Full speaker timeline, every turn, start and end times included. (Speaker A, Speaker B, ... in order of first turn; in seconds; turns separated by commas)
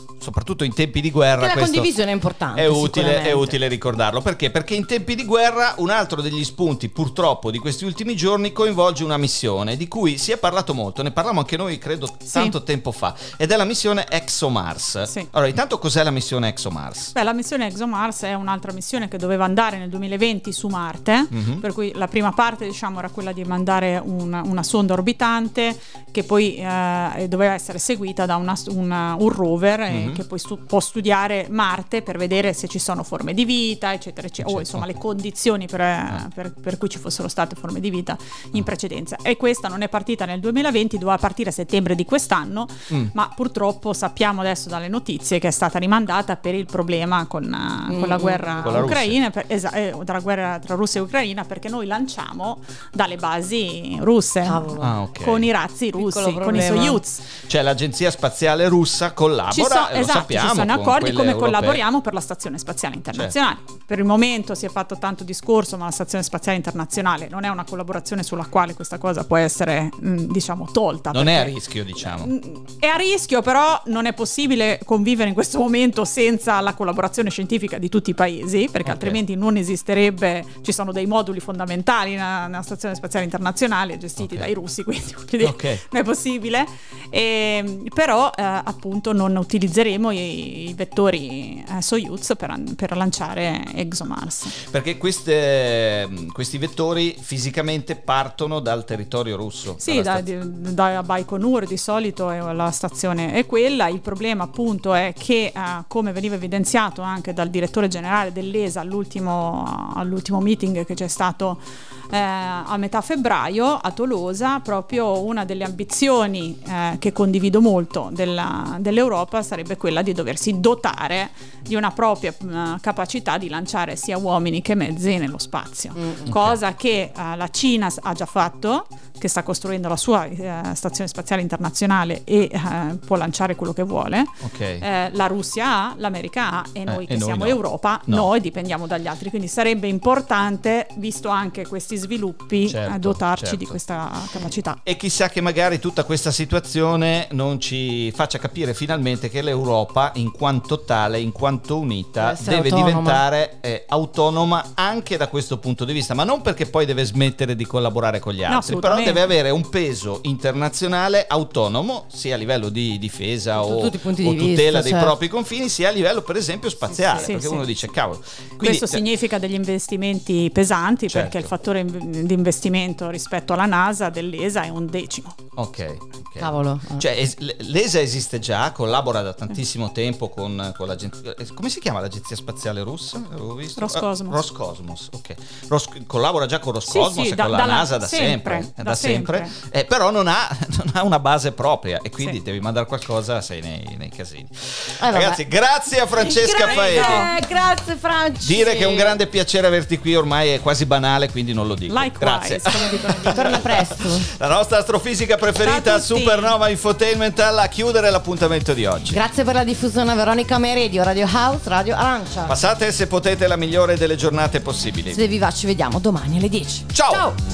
Speaker A: 0.2-1.9, Speaker B: 1.4-3.5, Speaker A: 2.5-17.1, Speaker C: 12.3-12.6, Speaker C: 17.1-57.2, Speaker A: 21.3-21.6, Speaker A: 29.9-30.2, Speaker A: 34.4-34.9, Speaker B: 47.9-48.8, Speaker A: 48.6-49.2, Speaker B: 54.5-54.9, Speaker A: 54.8-55.5, Speaker B: 56.0-57.0, Speaker A: 57.5-61.8, Speaker C: 59.5-94.6, Speaker A: 71.1-72.3, Speaker A: 78.8-79.2, Speaker A: 84.2-84.5, Speaker A: 85.4-85.8, Speaker A: 94.6-100.2, Speaker C: 99.8-144.8, Speaker B: 126.0-126.3, Speaker A: 126.3-126.6, Speaker A: 134.4-134.8, Speaker A: 136.9-138.3, Speaker A: 142.7-143.8, Speaker A: 144.8-169.1, Speaker B: 152.2-153.2, Speaker C: 158.5-159.2, Speaker B: 163.6-165.1, Speaker B: 167.0-167.3, Speaker C: 167.0-167.6, Speaker C: 168.6-175.4, Speaker A: 171.1-171.5, Speaker A: 175.6-197.3, Speaker B: 176.4-177.0, Speaker C: 183.8-184.4, Speaker C: 186.9-189.5, Speaker B: 195.0-195.4, Speaker B: 196.2-199.2, Speaker C: 196.6-197.3, Speaker A: 198.4-209.2, Speaker C: 201.9-203.6, Speaker B: 203.3-204.3, Speaker C: 205.6-206.5, Speaker B: 209.1-212.6, Speaker A: 212.4-215.2, Speaker B: 215.1-217.4, Speaker A: 216.9-217.3